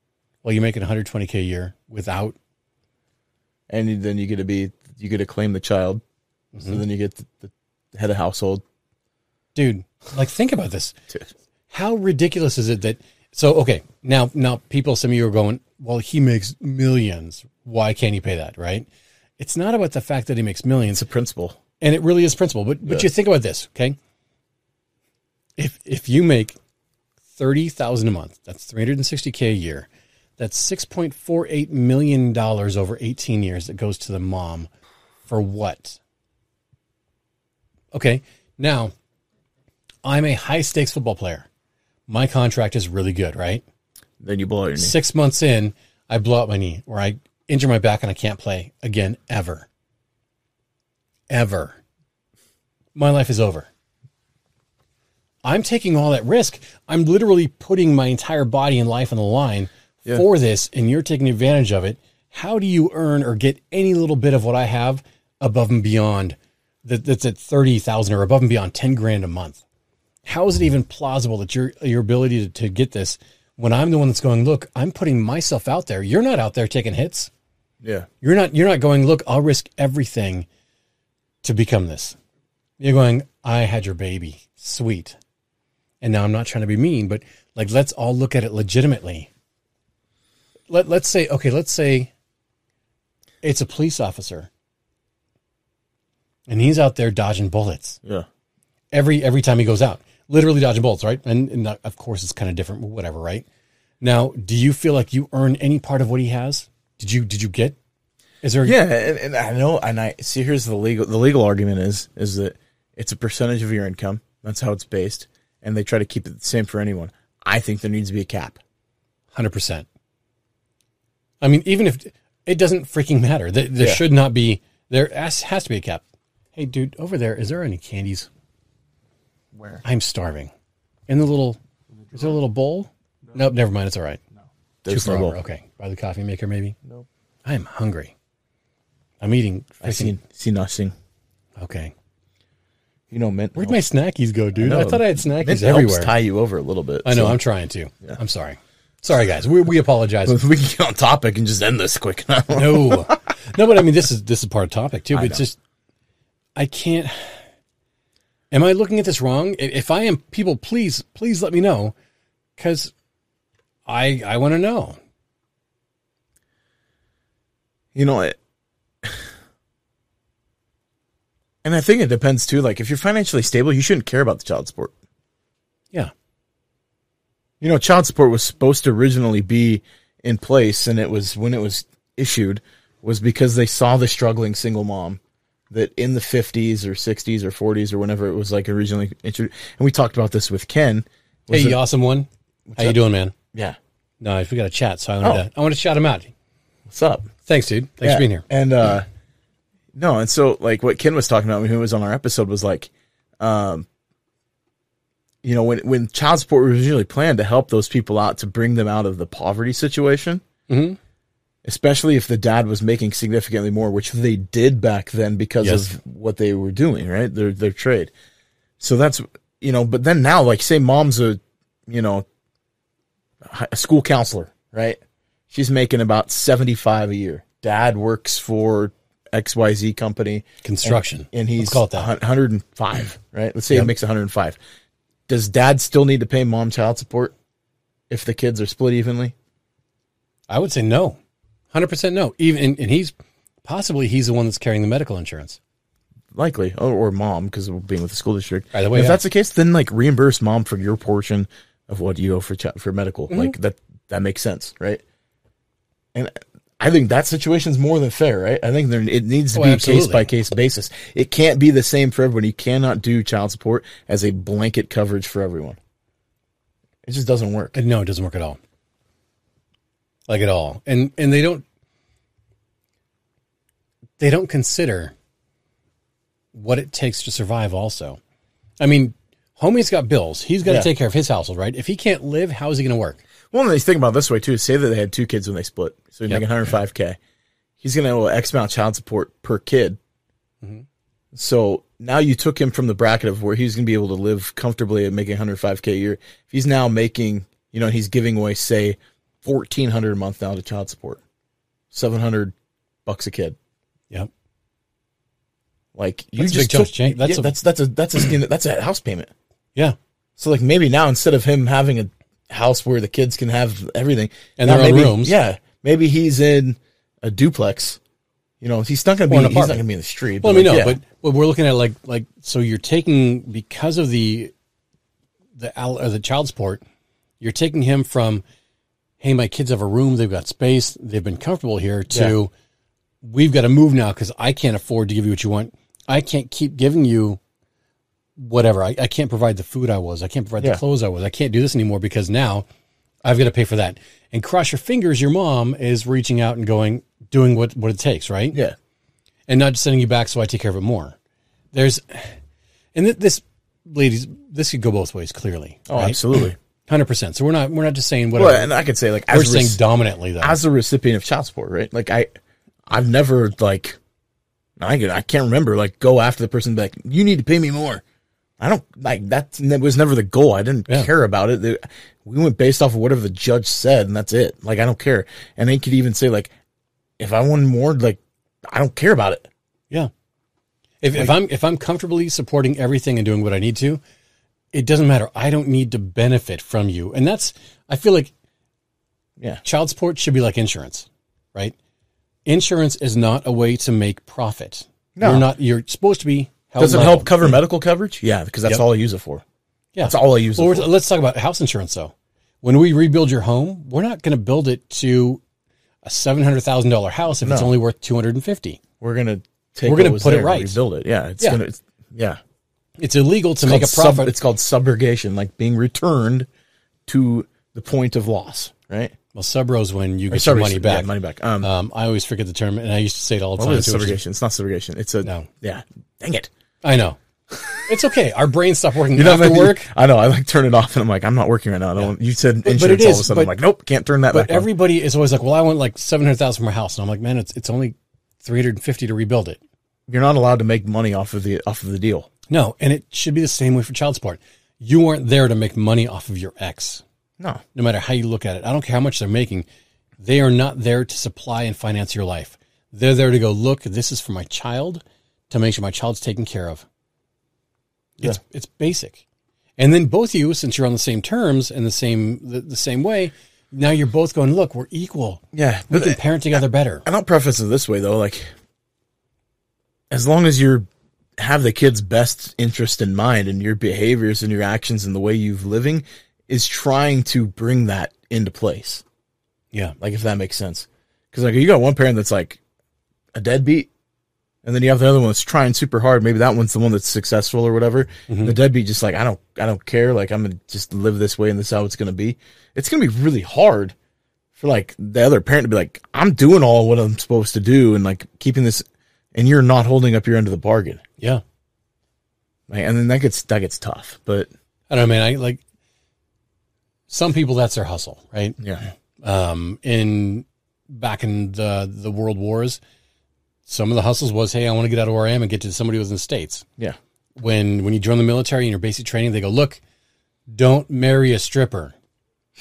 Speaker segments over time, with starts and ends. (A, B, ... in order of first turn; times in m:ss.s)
0:00.4-0:02.4 A
0:03.7-0:06.0 B
0:06.5-0:06.8 A
0:06.6-0:08.6 B
0:09.5-0:11.0 A
0:11.7-0:18.9 A
0:19.4-0:21.0 A
0:20.9-0:21.6 B
0:21.8-0:24.0 A
0:25.6-0:26.6 A
0:27.3-0:34.7 A
0:35.2-0:36.0 A
0:37.9-0:38.9 A
0:40.0-0:41.5 A
0:42.1-0:43.6 A
0:44.2-0:45.0 B
0:44.8-0:49.7 A
0:51.3-0:51.8 A
0:52.9-0:53.7 A
0:55.4-1:09.6 A
1:10.2-1:17.3 A
1:17.8-1:18.1 B
1:18.2-1:20.5 A
1:21.4-1:22.2 A
1:22.8-1:25.2 A
1:26.0-1:29.3 A
1:30.7-1:32.1 A
1:33.4-1:34.5 A
1:36.5-1:38.0 A
1:38.9-1:43.4 A
1:44.0-1:47.8 A
1:48.4-1:48.8 A
1:48.6-1:58.6 B
1:59.3-1:59.8 A
2:01.4-2:06.0 A
2:03.8-2:04.0 B
2:06.5-2:08.3 A
2:09.5-2:09.8 B
2:09.8-2:10.5 A
2:11.1-2:11.6 A
2:12.1-2:14.2 A
2:14.8-2:15.4 B
2:14.9-2:16.8 A
2:17.4-2:18.1 A
2:19.2-2:20.1 A
2:19.8-2:20.9 B
2:21.6-2:21.9 A
2:23.1-2:23.8 B
2:23.5-2:26.1 A
2:24.6-2:27.4 B
2:27.0-2:30.4 A
2:30.2-2:33.2 B
2:32.5-2:35.6 A
2:35.1-2:35.4 B
2:36.6-2:37.4 A
2:38.5-2:41.9 A
2:42.6-2:42.9 A
2:43.8-2:45.0 A
2:47.9-2:48.4 B
2:49.0-2:49.3 B
2:51.6-2:54.9 B
2:57.6-3:05.2 B
3:05.7-3:11.8 B
3:11.5-3:13.3 A
3:12.7-3:13.0 B
3:14.2-3:16.3 A
3:16.9-3:17.3 B
3:17.4-3:18.4 A
3:18.0-3:19.0 B
3:19.9-3:23.8 B
3:25.4-3:30.4 B
3:30.7-3:31.0 A
3:31.6-3:38.1 B
3:35.6-3:35.9 A
3:38.8-3:42.2 B
3:43.4-3:45.0 B
3:45.5-3:54.6 B
3:50.6-3:52.1 A
3:55.3-3:57.3 B
3:58.1-3:59.3 B
4:00.5-4:01.2 A
4:01.7-4:05.6 A
4:06.3-4:15.0 B
4:08.7-4:09.2 A
4:16.1-4:25.8 B
4:19.5-4:20.3 A
4:27.0-4:27.8 B
4:27.7-4:28.6 A
4:30.3-4:31.6 A
4:34.2-4:35.1 A
4:36.5-4:38.2 A
4:38.8-4:43.2 A
4:40.6-4:40.9 B
4:43.5-4:47.2 B
4:47.8-4:50.0 B
4:51.3-5:01.2 B
5:01.9-5:02.5 B
5:03.0-5:03.6 B
5:05.9-5:09.3 B
5:06.4-5:07.5 A
5:10.4-5:18.0 B
5:14.6-5:15.4 A
5:18.6-5:21.0 B
5:19.3-5:19.8 A
5:20.4-5:24.5 A
5:25.6-5:26.8 A
5:27.4-5:28.4 A
5:29.2-5:32.5 A
5:32.1-5:32.4 B
5:33.2-5:37.4 A
5:38.4-5:42.6 A
5:43.2-5:48.6 A
5:49.5-5:51.2 A
5:51.7-5:52.4 A
5:52.9-5:58.7 A
5:55.9-5:56.6 B
5:58.3-5:59.8 B
5:59.3-6:00.6 A
6:00.4-6:02.3 B
6:02.9-6:04.0 B
6:04.8-6:08.0 B
6:08.6-6:16.5 B
6:17.2-6:19.5 B
6:21.0-6:24.0 A
6:24.7-6:28.3 A
6:29.6-6:31.7 A
6:32.4-6:37.6 A
6:35.2-6:35.5 B
6:36.8-6:39.4 B
6:39.9-6:45.4 A
6:40.0-6:40.9 B
6:46.0-6:48.8 A
6:47.4-6:47.7 B
6:49.0-6:52.4 B
6:49.8-6:50.8 A
6:53.0-6:54.3 A
6:53.6-6:56.5 B
6:57.1-6:59.1 B
6:59.3-7:04.2 A
7:00.3-7:01.7 B
7:03.6-7:06.5 B
7:05.2-7:05.5 A
7:06.8-7:07.2 A
7:07.5-7:07.8 B
7:07.8-7:09.9 A
7:09.1-7:14.7 B
7:12.6-7:13.5 A
7:14.3-7:19.6 A
7:20.1-7:22.3 B
7:22.5-7:27.0 A
7:27.7-7:29.6 A
7:30.2-7:36.8 A
7:38.2-7:39.2 A
7:39.8-7:47.0 A
7:45.5-7:46.2 B
7:47.0-7:48.5 B
7:50.1-7:50.9 B
7:51.4-7:59.0 B
8:00.0-8:02.6 B
8:03.3-8:03.9 B
8:04.6-8:13.9 B
8:08.3-8:08.6 A
8:14.5-8:21.0 B
8:22.7-8:24.5 B
8:24.9-8:25.6 A
8:27.1-8:28.6 A
8:28.6-8:28.8 B
8:29.2-8:32.8 A
8:33.6-8:36.6 A
8:37.4-8:39.8 A
8:40.5-8:41.9 A